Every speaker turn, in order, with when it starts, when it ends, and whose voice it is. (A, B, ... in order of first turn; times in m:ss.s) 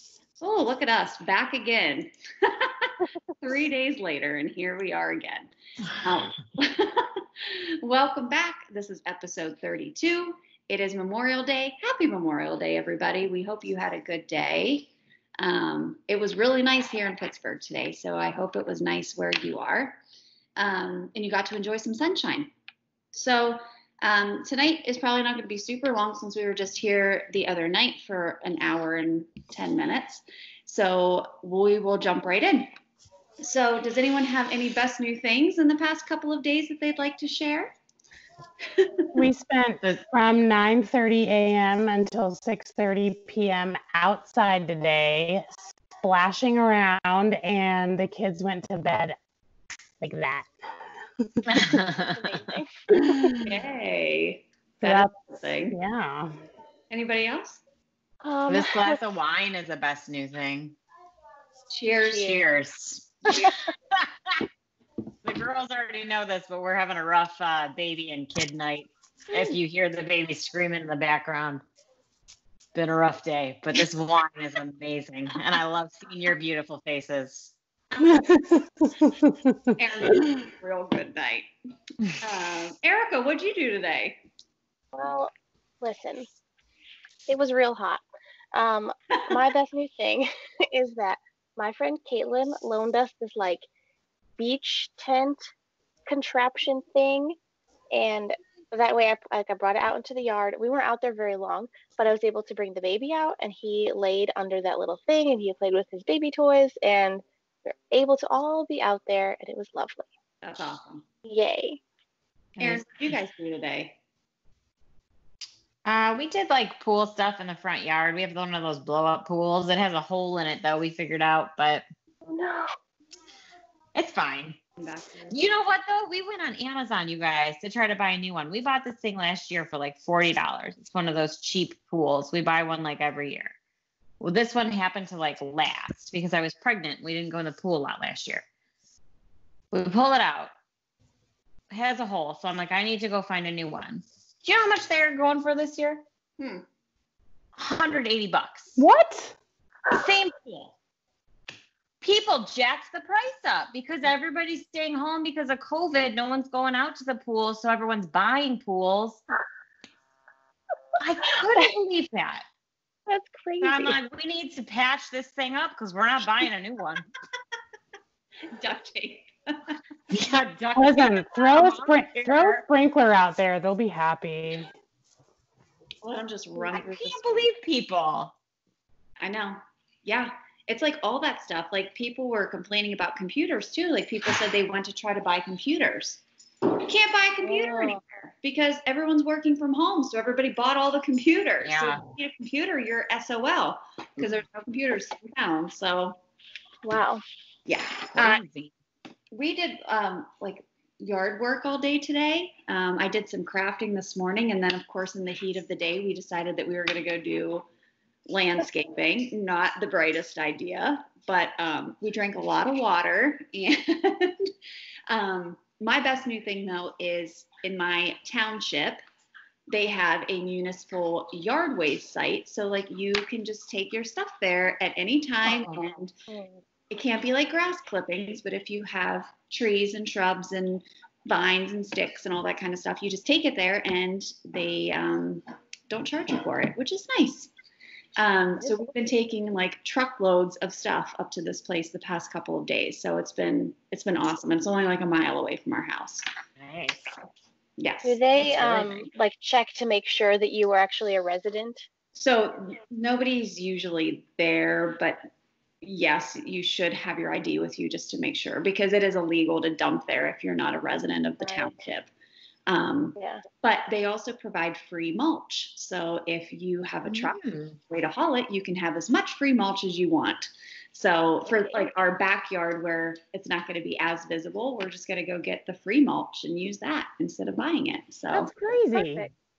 0:00.4-0:20.0 A
0:20.6-0:22.5 A
0:23.1-0:32.7 A
0:33.4-0:37.7 A
0:38.7-0:39.2 A
0:39.1-0:49.2 B
0:50.0-0:51.8 B
0:51.5-0:52.2 C
0:52.1-0:52.7 D
0:52.9-0:53.5 B
0:53.3-0:55.8 A
0:54.8-0:55.2 B
0:55.7-0:56.3 B
0:56.9-0:57.6 A
0:58.2-0:59.0 D
0:58.5-1:00.8 C
1:01.7-1:02.4 A
1:02.1-1:02.4 D
1:02.1-1:04.4 C
1:05.2-1:11.6 C
1:12.7-1:17.5 C
1:18.0-1:20.2 B
1:19.8-1:21.5 A
1:22.2-1:24.2 A
1:24.9-1:26.3 D
1:27.3-1:28.0 D
1:28.5-1:33.6 D
1:29.1-1:29.4 A
1:34.4-1:35.4 D
1:36.1-1:37.4 D
1:37.9-1:50.0 D
1:50.4-1:51.0 A
1:51.2-1:51.8 D
1:52.6-1:52.8 C
1:52.6-1:54.0 A
1:55.8-2:01.8 C
2:02.2-2:02.7 D
2:03.9-2:04.6 C
2:04.8-2:05.3 A
2:05.3-2:13.5 C
2:14.2-2:18.4 C
2:19.7-2:20.5 C
2:21.7-2:26.0 C
2:26.4-2:26.6 A
2:27.6-2:28.8 C
2:28.8-2:29.4 B
2:29.9-2:30.7 C
2:32.0-2:39.2 C
2:41.0-2:42.4 C
2:43.1-2:44.0 D
2:43.6-2:47.0 C
2:48.5-2:49.8 A
2:50.1-2:52.6 C
2:50.8-2:54.7 B
2:56.0-2:57.5 A
2:56.6-2:58.3 C
2:59.2-3:06.2 A
3:06.8-3:16.2 A
3:07.4-3:08.0 D
3:11.6-3:12.0 C
3:16.8-3:17.2 D
3:17.6-3:18.4 A
3:18.2-3:18.5 C
3:19.3-3:27.6 A
3:28.3-3:34.5 A
3:35.1-3:39.0 A
3:39.7-3:46.1 A
3:45.5-3:45.8 C
3:46.3-3:46.6 D
3:46.9-3:57.5 A
3:58.2-4:06.2 A
4:06.6-4:07.1 C
4:07.8-4:09.1 A
4:08.0-4:11.8 D
4:08.6-4:08.8 C
4:12.1-4:15.2 A
4:15.8-4:22.1 A
4:21.4-4:21.7 D
4:22.7-4:38.5 A
4:23.2-4:23.4 D
4:27.0-4:27.8 C
4:31.5-4:31.8 D
4:38.3-4:39.3 B
4:38.9-4:39.3 D